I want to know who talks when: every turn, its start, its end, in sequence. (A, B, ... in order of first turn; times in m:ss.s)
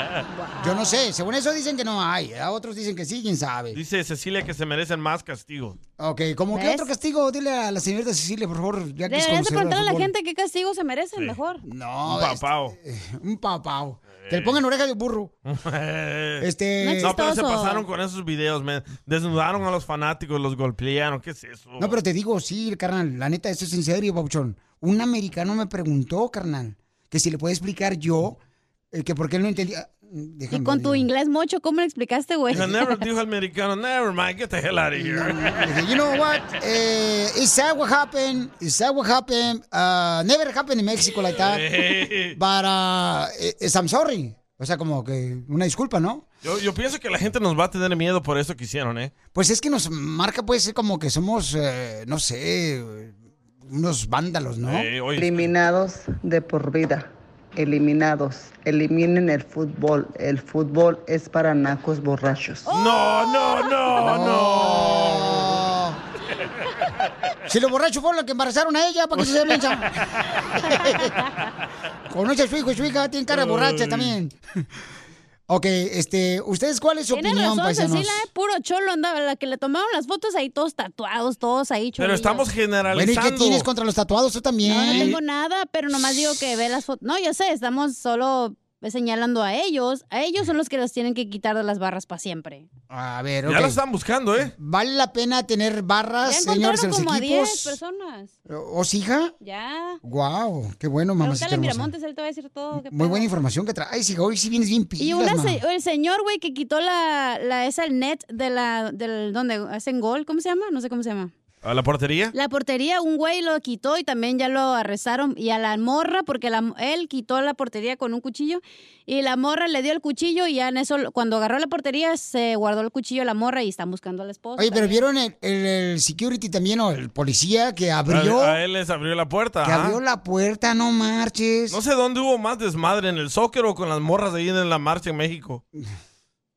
0:00.3-0:01.0 A
0:00.6-0:03.8 B
0:03.7-0:05.8 C
0:06.0-0:10.1 B
0:06.5-0:06.9 A
0:09.1-0:11.6 A
0:11.6-0:15.3 B
0:12.1-0:12.8 C
0:14.2-0:14.6 C
0:15.5-0:16.5 C
0:16.4-0:17.2 B
0:16.8-0:17.8 A
0:17.0-0:22.0 C
0:21.8-0:28.4 B
0:28.9-0:31.1 B
0:30.5-0:33.0 A
0:32.5-0:35.7 C
0:35.0-0:41.7 B
0:41.4-0:42.4 C
0:42.4-0:46.2 B
0:46.4-0:49.1 C
0:49.3-0:53.1 B
0:53.7-0:54.9 B
0:54.6-0:55.5 C
0:55.2-1:02.7 D
1:02.7-1:04.3 A
1:02.7-1:05.6 C
1:04.0-1:06.0 B
1:07.5-1:09.9 B
1:09.2-1:09.6 C
1:10.6-1:11.1 B
1:12.1-1:14.4 B
1:13.3-1:14.2 C
1:15.5-1:18.3 B
1:17.1-1:22.5 A
1:22.0-1:23.7 C
1:22.9-1:25.2 B
1:24.6-1:32.7 A
1:24.8-1:25.2 C
1:32.9-1:33.8 B
1:33.5-1:34.5 C
1:34.6-1:37.8 B
1:36.2-1:38.3 A
1:38.5-1:39.3 B
1:39.4-1:40.0 A
1:40.0-1:41.9 B
1:41.2-1:43.3 A
1:42.7-1:45.6 B
1:45.0-1:51.3 A
1:51.6-1:52.3 C
1:52.3-2:05.0 A
2:04.6-2:08.6 B
2:08.1-2:10.0 C
2:09.6-2:11.8 B
2:11.7-2:15.6 C